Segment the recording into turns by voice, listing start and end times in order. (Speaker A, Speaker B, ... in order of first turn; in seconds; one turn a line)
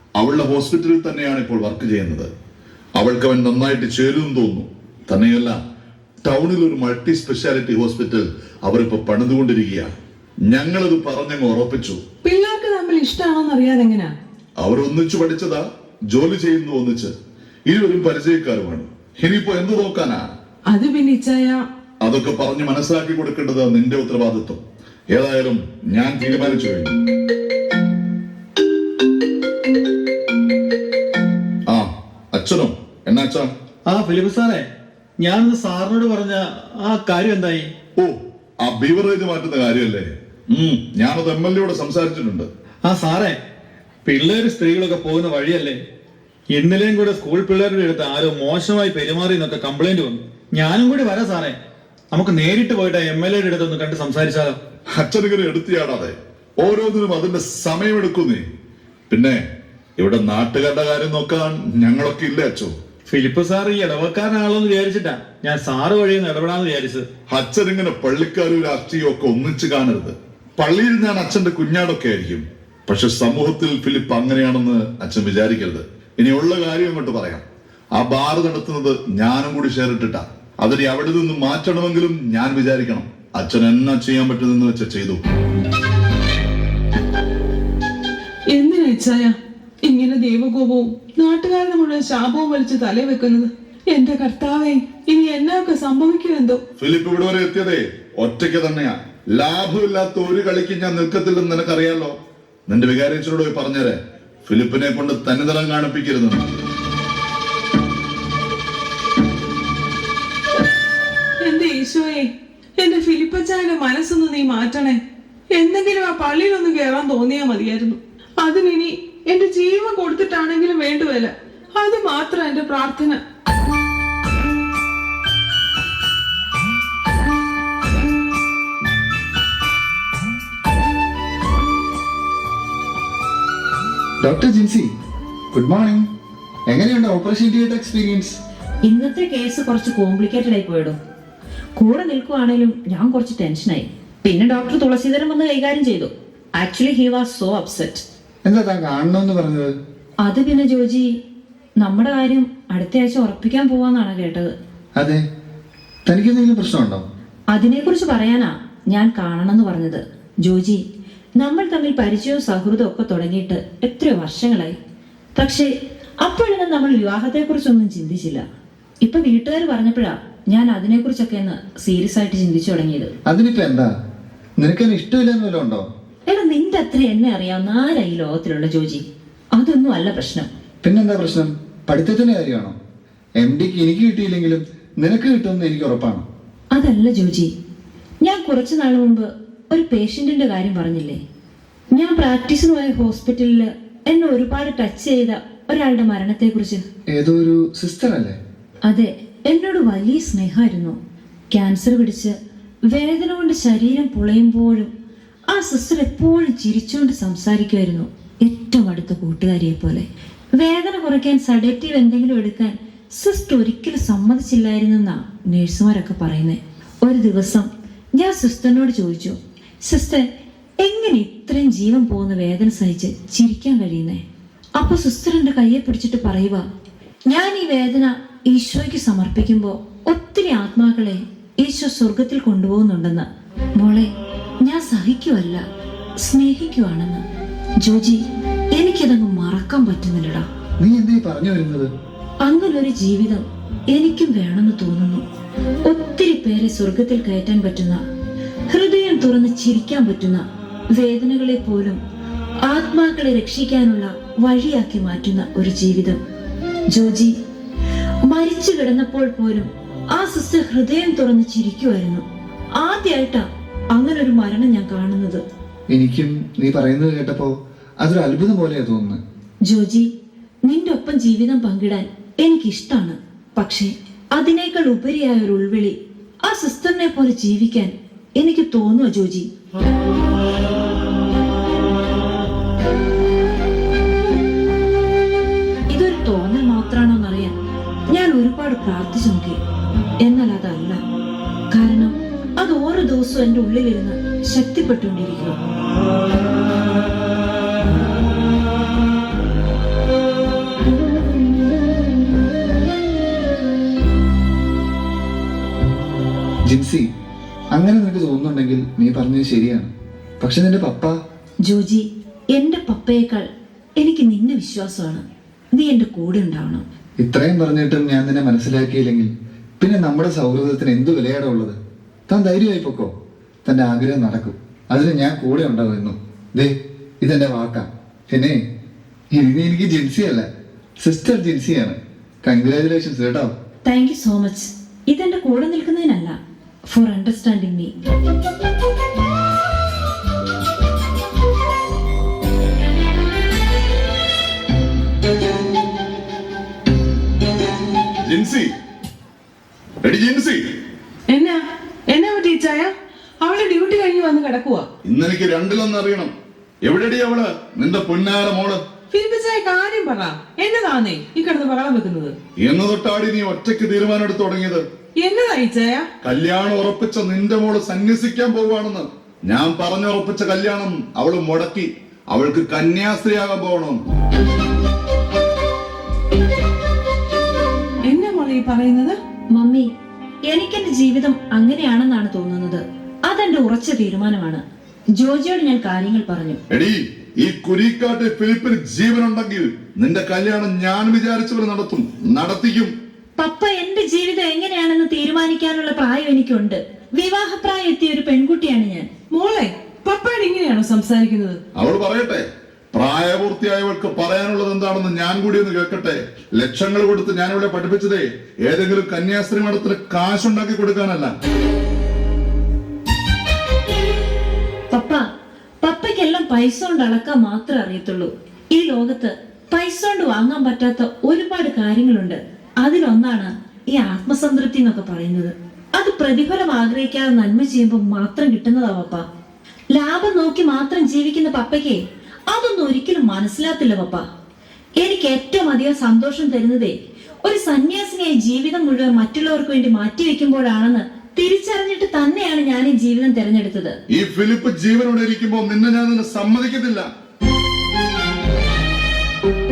Speaker A: 0.2-2.3
Speaker A: 3.0-5.6
Speaker A: 6.2-9.9
Speaker A: 10.5-12.0
Speaker B: 12.2-14.1
Speaker A: 14.6-17.1
Speaker A: 17.7-20.2
Speaker B: 20.7-21.6
Speaker A: 22.0-26.9
Speaker A: 31.7-33.5
Speaker C: 33.9-34.7
Speaker C: 35.2-37.7
Speaker A: 38.0-42.5
Speaker C: 42.8-43.4
Speaker C: 44.1-45.8
Speaker C: 46.5-51.5
Speaker C: 52.1-54.6
Speaker A: 54.9-58.5
Speaker A: 59.1-59.4
Speaker A: 60.0-62.7
Speaker C: 63.1-67.1
Speaker A: 67.3-77.4
Speaker A: 78.0-85.2
Speaker B: 88.5-96.6
Speaker A: 96.8-102.2
Speaker A: 102.7-106.4
Speaker B: 111.4-115.0
Speaker B: 115.5-123.2
Speaker D: 134.2-134.9
Speaker D: 135.5-136.1
Speaker D: 136.7-138.4
Speaker E: 138.9-140.9
Speaker E: 141.8-148.0
Speaker D: 148.4-149.7
Speaker E: 150.2-151.1
Speaker E: 151.8-154.5
Speaker D: 155.0-155.2
Speaker D: 156.1-157.1
Speaker E: 157.5-160.8
Speaker E: 161.4-164.7
Speaker E: 165.4-165.7
Speaker E: 166.2-168.4
Speaker E: 169.0-173.1
Speaker D: 173.3-173.9
Speaker D: 174.6-175.8
Speaker E: 176.3-179.0
Speaker E: 179.6-180.5
Speaker D: 180.8-182.7
Speaker D: 183.4-186.2
Speaker E: 186.7-187.5
Speaker E: 188.2-191.2
Speaker E: 191.9-196.8
Speaker D: 197.1-198.4
Speaker E: 198.9-201.0
Speaker E: 201.5-202.3
Speaker E: 202.9-204.9
Speaker E: 205.5-210.1
Speaker E: 210.6-220.2
Speaker E: 220.8-224.2
Speaker E: 224.8-226.6
Speaker E: 227.3-233.3
Speaker E: 233.8-234.1
Speaker E: 234.6-235.6
Speaker E: 236.2-237.2
Speaker E: 237.8-238.2
Speaker E: 238.8-240.5
Speaker D: 240.8-241.9
Speaker E: 242.4-245.2
Speaker E: 245.9-248.0
Speaker E: 248.7-252.0
Speaker E: 252.7-256.2
Speaker E: 256.9-257.4
Speaker E: 258.3-262.2
Speaker E: 262.8-265.4
Speaker D: 265.9-269.2
Speaker E: 269.7-270.1
Speaker E: 270.7-279.5
Speaker E: 285.9-287.6
Speaker E: 288.1-289.6
Speaker E: 290.2-291.0
Speaker E: 291.7-295.6
Speaker D: 306.7-307.0
Speaker D: 307.7-311.1
Speaker E: 311.7-313.5
Speaker E: 314.0-315.2
Speaker E: 315.8-316.8
Speaker D: 317.2-321.8
Speaker D: 322.3-323.1
Speaker D: 323.6-328.6
Speaker D: 329.4-330.5
Speaker D: 331.0-333.5
Speaker E: 333.8-336.4
Speaker E: 336.9-337.9
Speaker A: 348.2-348.7
Speaker A: 350.0-350.6
Speaker B: 351.3-354.9
Speaker A: 355.1-358.8
Speaker B: 359.1-362.4
Speaker A: 362.6-364.8
Speaker B: 365.2-366.1
Speaker A: 366.2-374.0
Speaker B: 378.1-379.2
Speaker E: 379.6-379.9
Speaker E: 380.5-384.6
Speaker E: 385.2-386.6
Speaker A: 386.7-392.9
Speaker E: 393.4-399.1
Speaker B: 399.3-401.6
Speaker A: 401.8-411.4
Speaker E: 414.9-415.2
Speaker E: 415.8-429.2
Speaker E: 429.9-434.2
Speaker E: 435.0-443.9
Speaker A: 444.1-447.1